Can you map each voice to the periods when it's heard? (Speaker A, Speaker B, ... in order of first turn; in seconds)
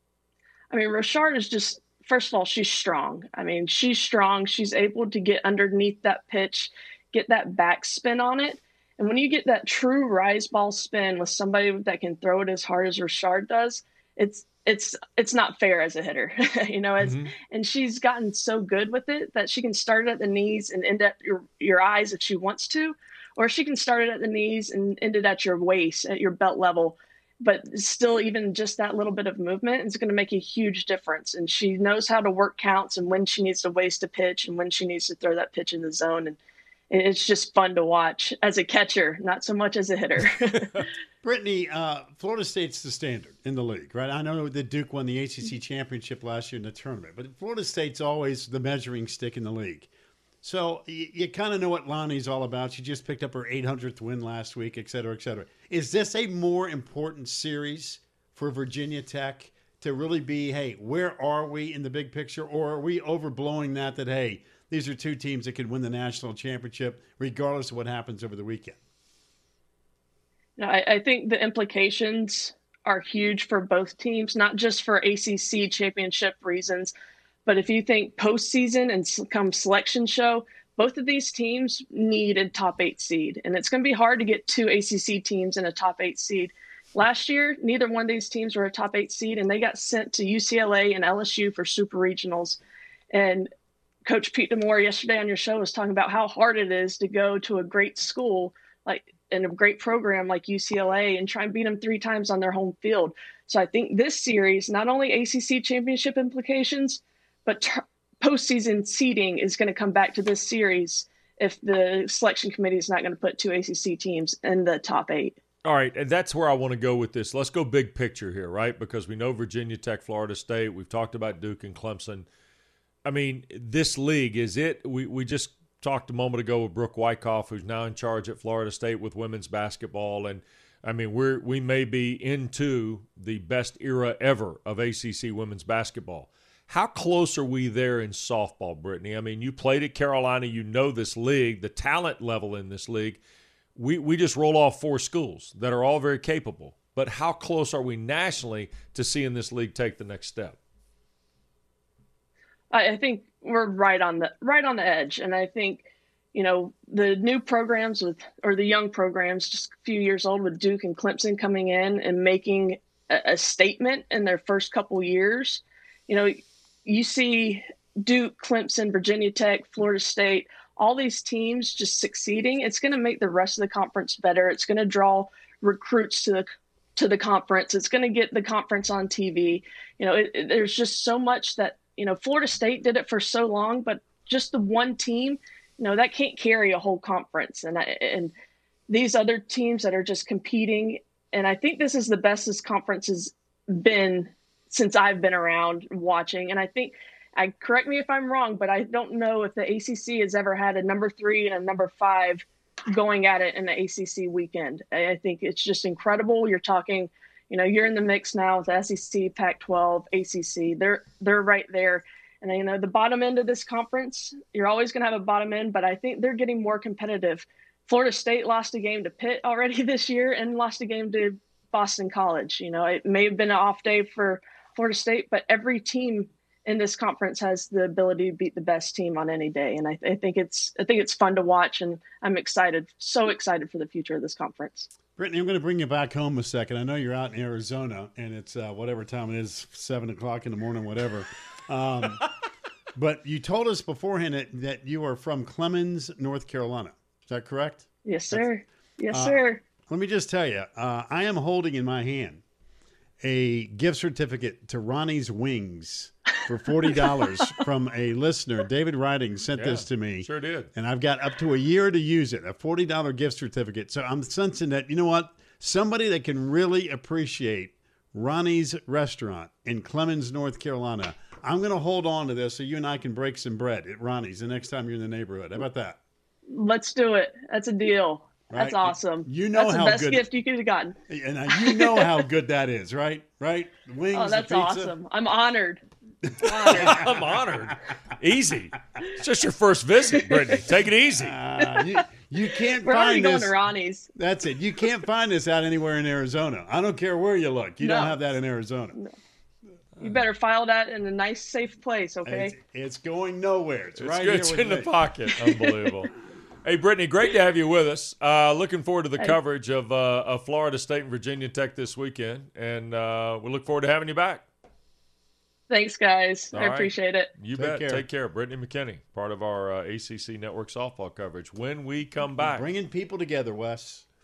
Speaker A: 0.7-36.4, 36.9-40.7, 70.6-76.9, 77.5-92.6, 93.1-93.5, 94.0-115.4, 152.7-188.3, 188.9-234.9, 248.1-249.6, 276.5-281.0, 281.5-282.2, 284.1-285.8, 286.4-286.9, 292.8-294.1, 297.8-298.2, 300.0-302.5, 305.4-305.7, 315.7-317.3
Speaker B: 17.0-17.3, 115.6-122.3, 123.0-143.2, 143.8-150.6, 259.6-260.7, 286.4-291.4, 304.0-306.1, 306.6-314.4, 316.5-322.7
Speaker C: 41.2-49.9, 50.4-68.8, 235.2-242.3, 242.9-248.4, 249.1-252.4, 253.2-276.0, 278.5-280.2, 281.1-284.9, 286.4-287.2, 291.1-293.5, 294.1-298.9, 302.2-304.9, 317.6-318.1, 322.4-324.0